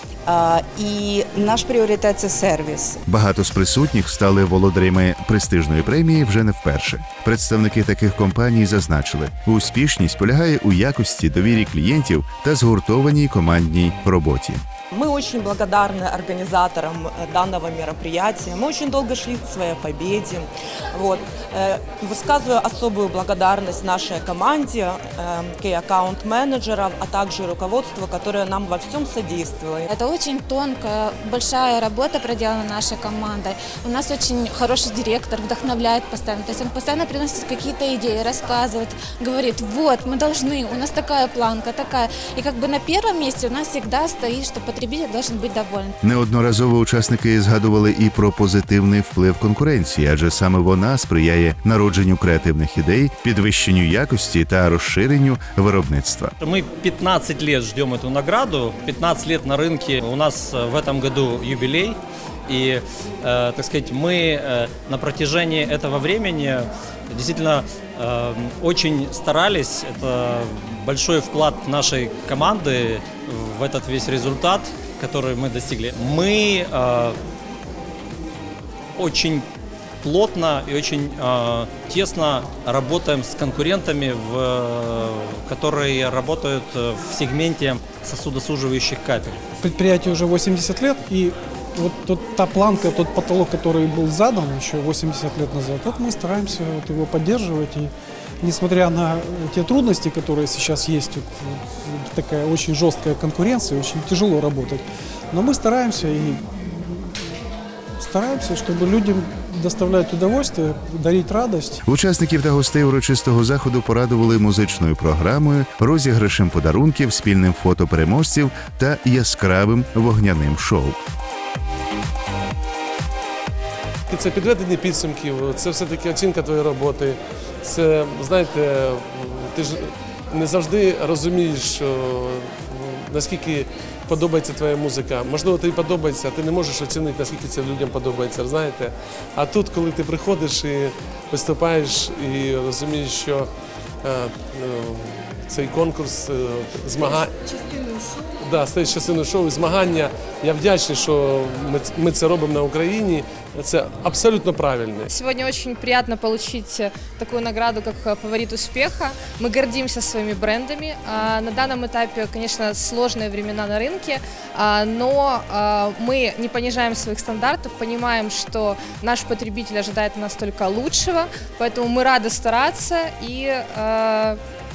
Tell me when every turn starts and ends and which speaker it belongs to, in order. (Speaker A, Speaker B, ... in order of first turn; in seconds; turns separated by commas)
Speaker A: 0.2-3.0, Speaker B: 3.0-14.6, Speaker C: 14.9-29.9, Speaker D: 29.9-45.9, Speaker B: 46.0-56.3, Speaker E: 56.4-77.1, Speaker E: 79.0-79.4, Speaker E: 80.0-89.4, Speaker F: 89.6-107.2, Speaker F: 108.0-111.8, Speaker B: 111.8-121.0, Speaker G: 124.1-143.5, Speaker G: 144.0-147.8, Speaker G: 148.4-155.1, Speaker H: 155.1-174.4